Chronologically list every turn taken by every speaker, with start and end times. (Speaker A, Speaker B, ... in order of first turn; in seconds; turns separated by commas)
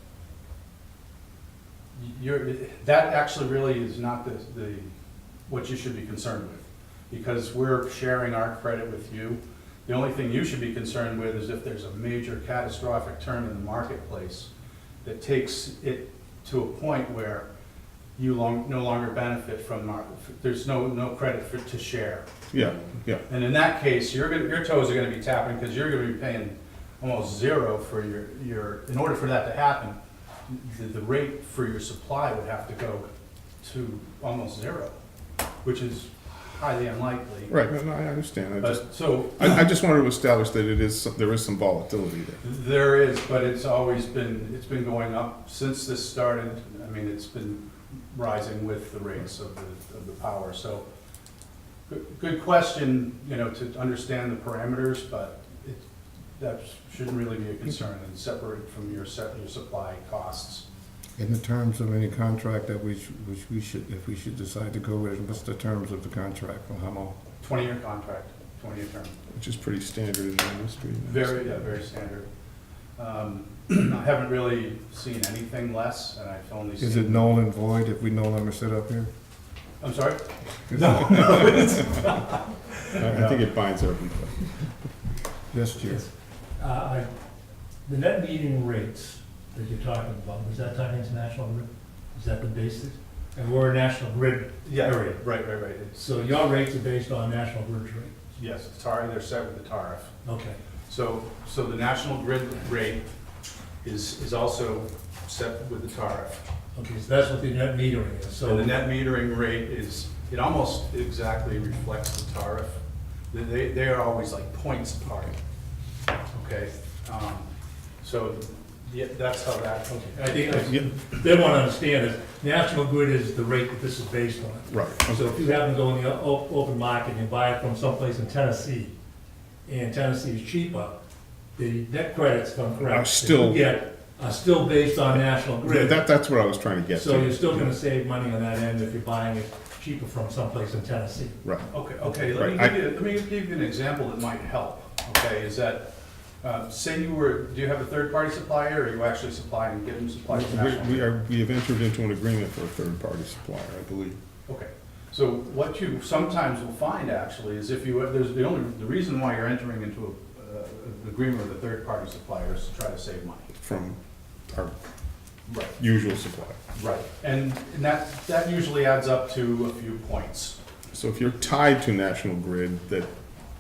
Speaker A: 2.0-4.9, Speaker A: 5.5-14.5, Speaker A: 15.0-17.5, Speaker A: 18.2-22.3, Speaker B: 22.5-23.2, Speaker A: 23.3-33.1, Speaker A: 33.6-34.9, Speaker A: 35.6-37.5, Speaker B: 37.5-42.4, Speaker A: 38.6-39.5, Speaker A: 42.4-50.8, Speaker A: 51.9-55.8, Speaker A: 56.4-60.6, Speaker C: 61.2-67.2, Speaker A: 67.4-69.2, Speaker B: 69.3-71.4, Speaker A: 71.0-72.3, Speaker A: 73.0-77.3, Speaker C: 76.8-79.1, Speaker A: 79.8-83.5, Speaker C: 80.7-81.1, Speaker B: 83.0-84.6, Speaker C: 85.5-86.0, Speaker D: 85.8-87.1, Speaker D: 87.8-95.2, Speaker A: 94.6-96.0, Speaker D: 95.9-98.2, Speaker A: 98.4-100.1, Speaker D: 100.2-100.6, Speaker A: 100.9-103.0, Speaker A: 103.8-106.4, Speaker D: 106.7-108.8, Speaker A: 108.5-112.8, Speaker A: 113.3-115.4, Speaker A: 116.3-117.5, Speaker A: 118.0-120.7, Speaker D: 119.9-128.9, Speaker B: 124.7-125.3, Speaker D: 129.7-131.0, Speaker D: 131.6-136.1, Speaker B: 132.8-133.7, Speaker B: 135.6-137.7, Speaker D: 136.9-141.4, Speaker B: 141.4-141.7, Speaker A: 141.7-145.9, Speaker B: 142.3-142.7, Speaker A: 146.4-151.1, Speaker B: 150.3-154.2, Speaker A: 154.5-163.5, Speaker B: 163.6-164.0, Speaker B: 164.5-164.7, Speaker A: 165.5-165.8, Speaker B: 165.8-166.6, Speaker A: 166.7-170.6, Speaker B: 170.9-173.1